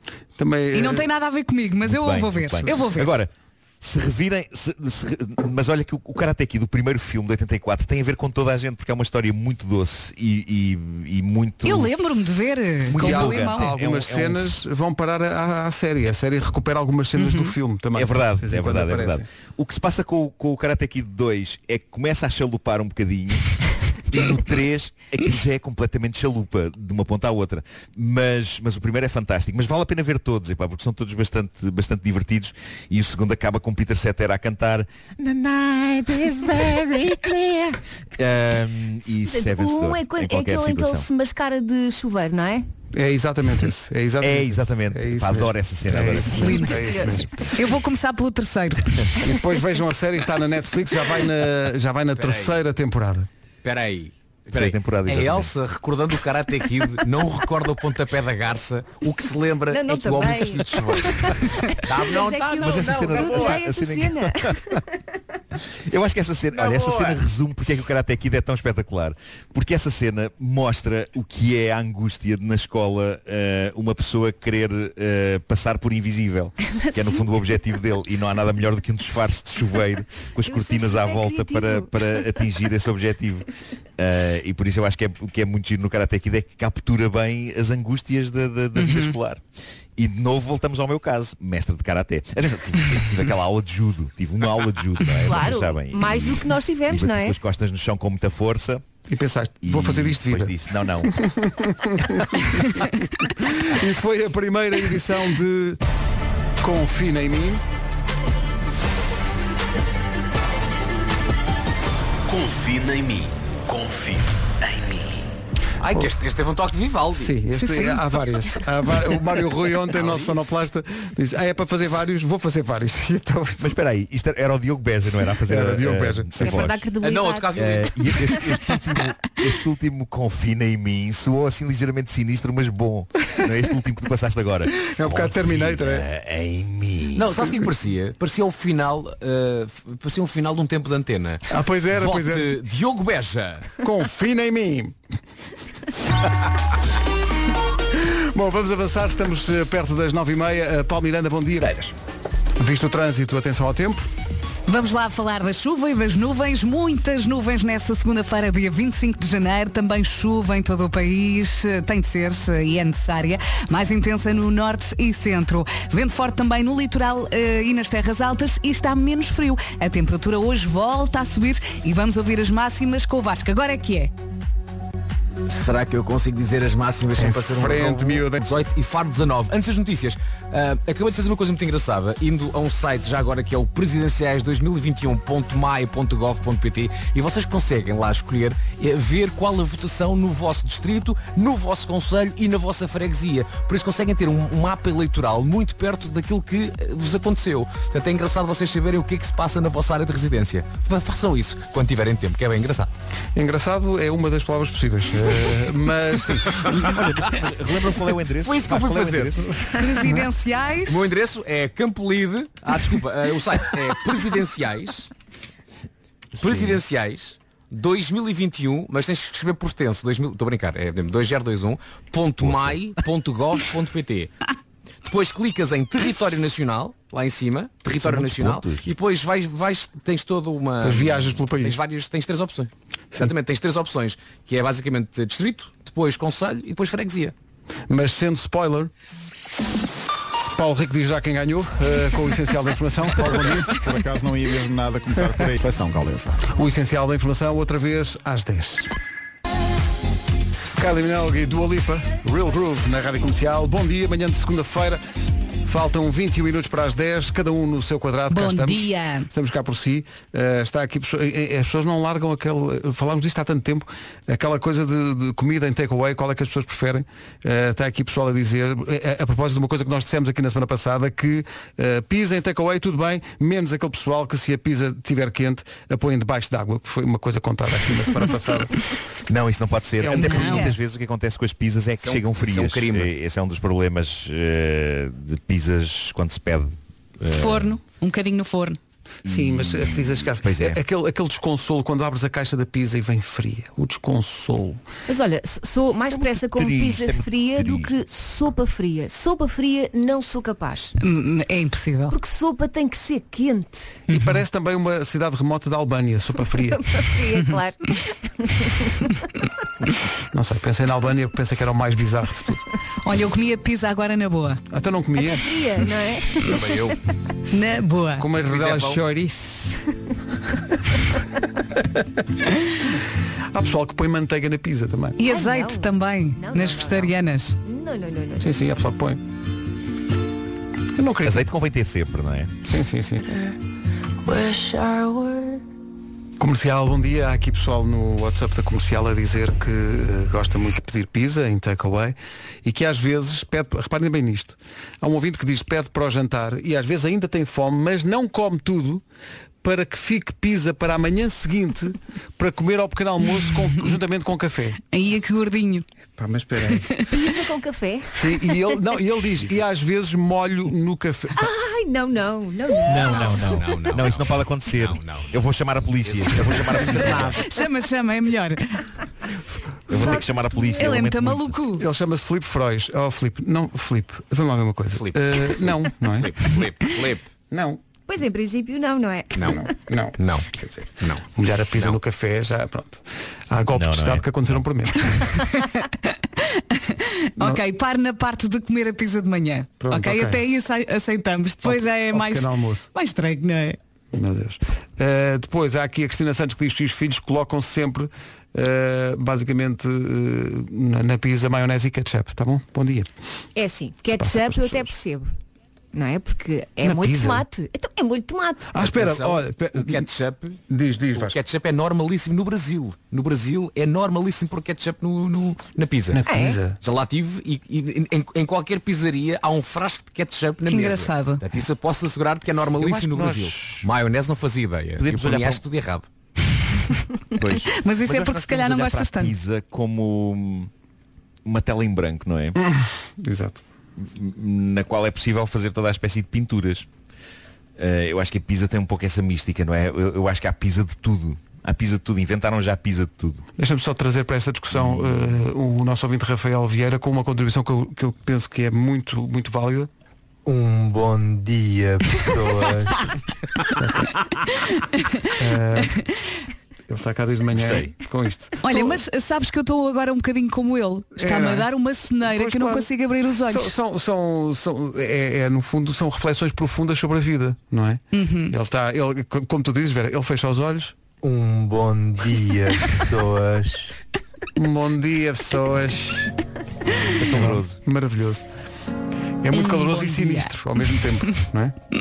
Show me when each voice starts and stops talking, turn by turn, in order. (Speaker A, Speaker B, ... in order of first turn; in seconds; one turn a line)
Speaker A: 0.4-1.1
Speaker B: 0.7-3.2
Speaker C: 1.8-12.2
Speaker B: 11.6-13.8
Speaker C: 12.8-14.4
Speaker A: 12.9-19.3
Speaker B: 17.2-17.6
Speaker C: 17.9-23.5
Speaker C: 24.1-41.1
Speaker D: 39.2-42.7
Speaker A: 42.9-47.4
Speaker C: 44.2-46.4
Speaker B: 46.3-46.9
Speaker D: 46.3-47.5
Speaker B: 47.5-49.2
Speaker A: 49.2-53.3
Speaker E: 52.2-52.6
Speaker E: 53.6-63.6
Speaker C: 54.5-55.5
Speaker D: 59.7-64.8
Speaker C: 62.6-64.8
Speaker C: 65.9-83.5
Speaker E: 66.6-67.2
Speaker D: 76.7-77.3
Speaker D: 80.4-82.5
Speaker C: 84.0-89.4
Speaker B: 88.8-89.2
Speaker C: 90.0-98.8
Speaker D: 95.1-97.4
Speaker A: 99.1-105.8
Speaker C: 99.6-101.1
Speaker A: 106.6-107.6
Speaker F: 112.3-115.3
Speaker E: 115.8-117.4
Speaker A: 117.1-123.8
Speaker B: 117.6-118.0
Speaker E: 119.9-120.5
Speaker C: 123.6-126.8
Speaker A: 125.5-126.7
Speaker D: 126.3-128.8
Speaker E: 127.0-128.1
Speaker C: 127.6-137.3
Speaker A: 134.8-136.1
Speaker E: 137.2-143.8
Speaker A: 141.5-142.6
Speaker A: 143.8-145.0
Speaker A: 147.9-151.9
Speaker A: 152.6-154.1
Speaker B: 154.7-174.1
Speaker E: 175.5-202.9
Speaker A: 177.2-178.5
Speaker A: 203.3-207.1
Speaker C: 206.8-209.4
Speaker E: 208.4-209.5
Speaker A: 209.4-210.3
Speaker B: 209.8-211.1
Speaker E: 210.9-215.1
Speaker E: 216.4-224.3
Speaker C: 216.4-216.8
Speaker C: 222.4-222.8
Speaker E: 225.1-237.3
Speaker C: 228.1-228.9
Speaker A: 230.8-231.8
Speaker A: 237.9-238.9
Speaker A: 240.5-243.8
Speaker G: 243.7-246.4
Speaker A: 246.5-248.9
Speaker A: 250.8-255.0
Speaker A: 255.7-278.8
Speaker B: 258.3-259.3
Speaker C: 279.3-287.8
Speaker A: 280.0-280.7
Speaker B: 280.1-280.8
Speaker D: 280.4-280.8
Speaker E: 282.0-283.1
Speaker B: 287.3-288.8
Speaker A: 289.2-294.8
Speaker C: 289.3-290.8
Speaker D: 295.1-300.9
Speaker C: 296.2-297.9
Speaker B: 301.0-302.2
Speaker D: 302.1-304.1
Speaker A: 304.1-306.9
Speaker B: 304.1-304.4
Speaker D: 306.5-309.1
Speaker A: 310.3-312.6
Speaker B: 313.0-314.6
Speaker A: 314.7-315.6
Speaker D: 315.2-317.0
Speaker E: 316.4-316.9
Speaker B: 317.5-318.3
Speaker A: 318.2-319.7
Speaker E: 318.4-319.0
Speaker A: 323.5-325.2
Speaker B: 325.2-327.6
Speaker D: 325.2-328.5
Speaker A: 328.4-329.2
Speaker A: 330.9-331.5
Speaker C: 331.2-332.5
Speaker A: 332.6-333.3
Speaker A: 336.4-349.0
Speaker A: 349.6-354.8
Speaker B: 354.9-355.9
Speaker A: 356.2-356.9
Speaker B: 356.7-357.1
Speaker D: 357.1-358.8
Speaker A: 358.2-361.5
Speaker D: 361.4-363.7
Speaker C: 362.9-367.4
Speaker E: 363.3-365.4
Speaker E: 366.0-367.4
Speaker B: 367.4-368.9
Speaker C: 369.9-371.6
Speaker D: 369.9-371.0
Speaker B: 370.8-371.9
Speaker A: 371.7-376.6
Speaker E: 374.9-377.3
Speaker A: 377.5-377.8
Speaker D: 378.1-379.7
Speaker E: 379.4-379.6
Speaker A: 379.4-380.2
Speaker E: 380.2-382.0
Speaker A: 381.3-385.3
Speaker C: 383.7-384.6
Speaker B: 385.4-393.8
Speaker A: 389.8-390.4
Speaker A: 391.6-392.9
Speaker A: 394.1-403.1
Speaker D: 403.6-405.3
Speaker A: 404.2-404.9
Speaker D: 405.9-408.8
Speaker A: 406.8-407.4
Speaker A: 408.7-410.1
Speaker E: 408.8-410.6
Speaker A: 410.7-411.4
Speaker E: 411.1-426.1
Speaker A: 416.1-416.8
Speaker D: 416.2-416.6
Speaker B: 420.7-421.4
Speaker A: 422.8-423.6
Speaker C: 425.0-425.6
Speaker C: 427.4-430.7
Speaker B: 427.7-429.4
Speaker C: 431.4-432.6
Speaker A: 432.6-433.6
Speaker C: 434.0-436.9
Speaker C: 437.8-443.4
Speaker A: 443.6-449.9
Speaker C: 444.7-445.4
Speaker H: 450.5-453.1
Speaker A: 453.8-454.1
Speaker B: 454.8-455.3
Speaker A: 455.4-456.0
Speaker A: 456.9-459.0
Speaker C: 457.5-457.9
Speaker B: 458.6-463.7
Speaker A: 461.2-461.7
Speaker A: 462.2-462.9
Speaker A: 463.4-470.9
Speaker B: 468.1-468.5
Speaker H: 471.2-473.9
Speaker A: 474.6-476.4
Speaker C: 477.1-477.8
Speaker A: 477.2-478.5
Speaker A: 479.4-481.8
Speaker B: 479.5-480.5